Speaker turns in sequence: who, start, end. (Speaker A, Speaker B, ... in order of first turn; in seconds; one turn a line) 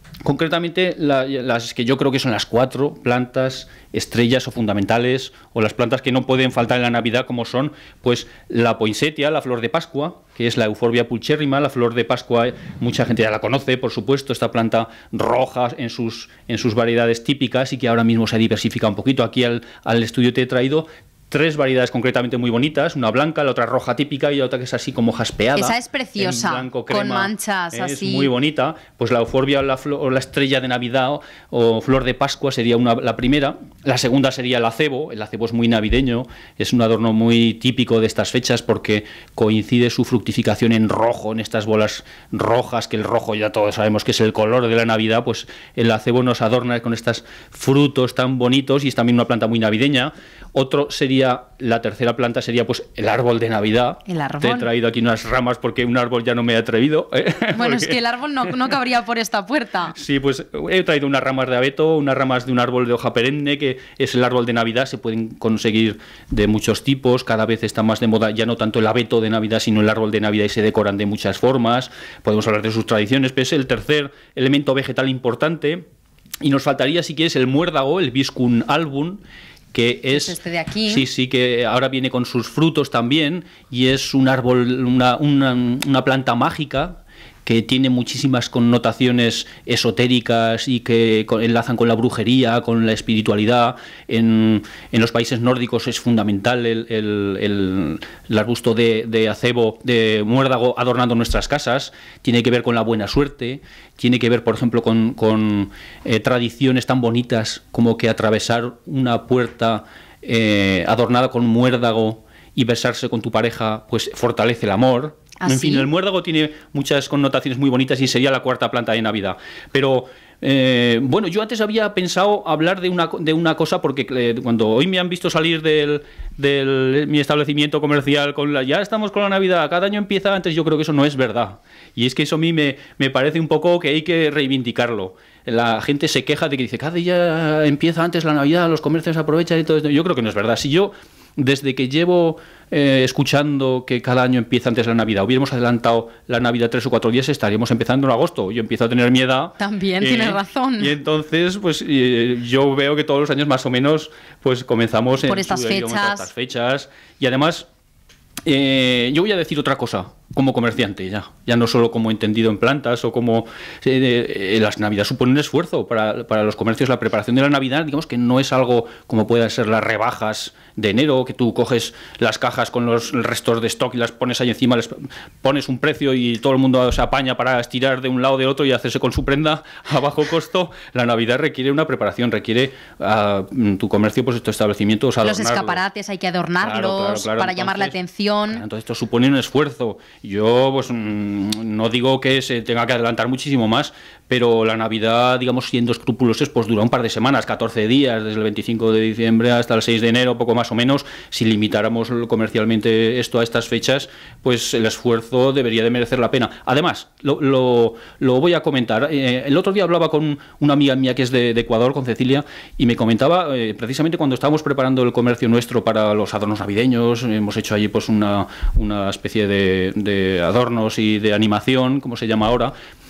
Speaker A: 0.2-58.5
Speaker B: 25.6-28.3
Speaker B: 54.1-54.7
Speaker B: 57.5-59.9
Speaker A: 59.9-75.8
Speaker A: 76.4-79.2
Speaker A: 79.7-80.3
Speaker B: 80.1-81.0
Speaker A: 80.9-157.7
Speaker B: 115.4-115.9
Speaker B: 149.6-150.9
Speaker B: 155.2-156.3
Speaker A: 158.4-185.8
Speaker B: 185.2-188.6
Speaker A: 186.6-188.0
Speaker A: 188.5-222.7